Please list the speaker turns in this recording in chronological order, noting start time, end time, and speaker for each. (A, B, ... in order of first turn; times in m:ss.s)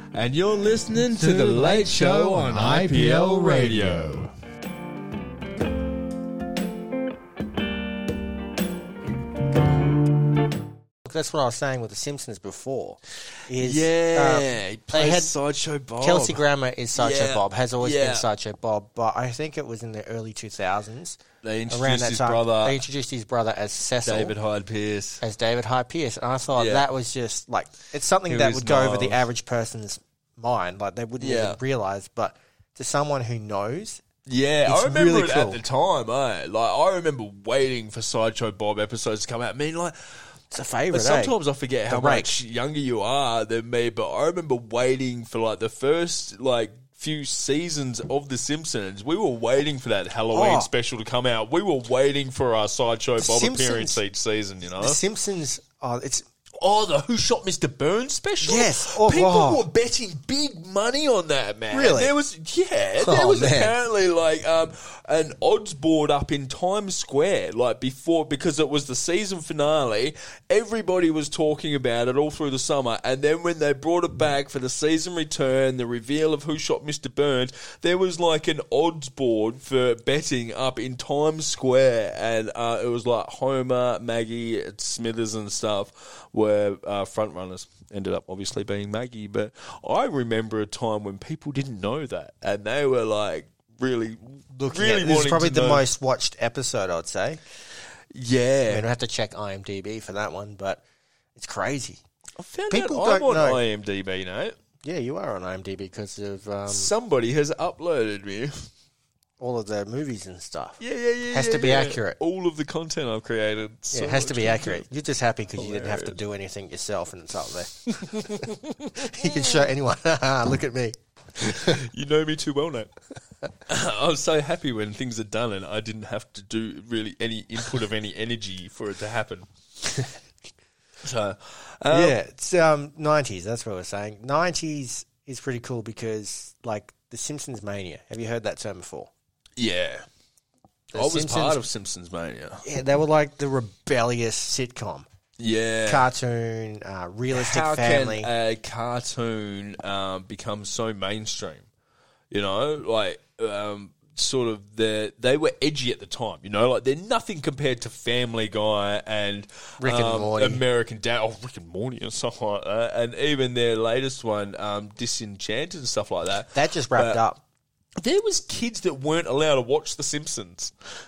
0:00.1-0:04.3 A
0:01.0-0:04.2 B
0:11.0-0:15.3 B
0:13.6-0:16.4 A
0:16.0-0:24.4 B
0:17.0-0:18.3 A
0:21.4-0:22.8 A
0:24.0-0:25.2 A
0:25.2-0:34.0 B
0:26.6-0:26.9 A
0:28.3-0:29.2 A
0:31.2-0:31.6 A
0:34.2-0:40.0 A
0:34.6-0:35.6 B
0:40.5-0:41.3 B
0:40.9-0:55.0 A
0:41.9-0:42.3 B
0:50.3-0:50.7 B
0:53.2-0:54.0 B
0:54.8-0:56.2 B
0:56.6-1:35.9 A
0:58.4-0:59.7 B
1:01.7-1:02.1 B
1:03.0-1:03.7 B
1:34.6-1:37.4 B
1:38.1-1:38.9 A
1:38.7-1:40.8 B
1:41.3-1:42.0 B
1:42.4-1:44.6 A
1:42.7-1:43.6 B
1:44.8-1:46.9 B
1:46.7-1:48.7 A
1:49.4-1:50.8 B
1:50.8-1:54.8 A
1:51.3-1:52.2 B
1:53.9-2:01.8 B
1:55.6-1:56.2 A
1:58.1-1:59.7 A
2:01.4-2:02.9 A
2:03.7-2:09.5 A
2:11.0-2:12.2 A
2:11.9-2:19.1 B
2:19.6-2:20.0 A
2:20.9-2:21.6 B
2:20.9-2:22.6 A
2:22.6-2:25.1 B
2:25.4-2:26.1 A
2:25.9-2:28.3 B
2:27.3-2:31.7 A
2:32.3-2:47.2 A
2:39.8-2:40.6 B
2:46.5-2:47.4 B
2:48.0-2:50.7 A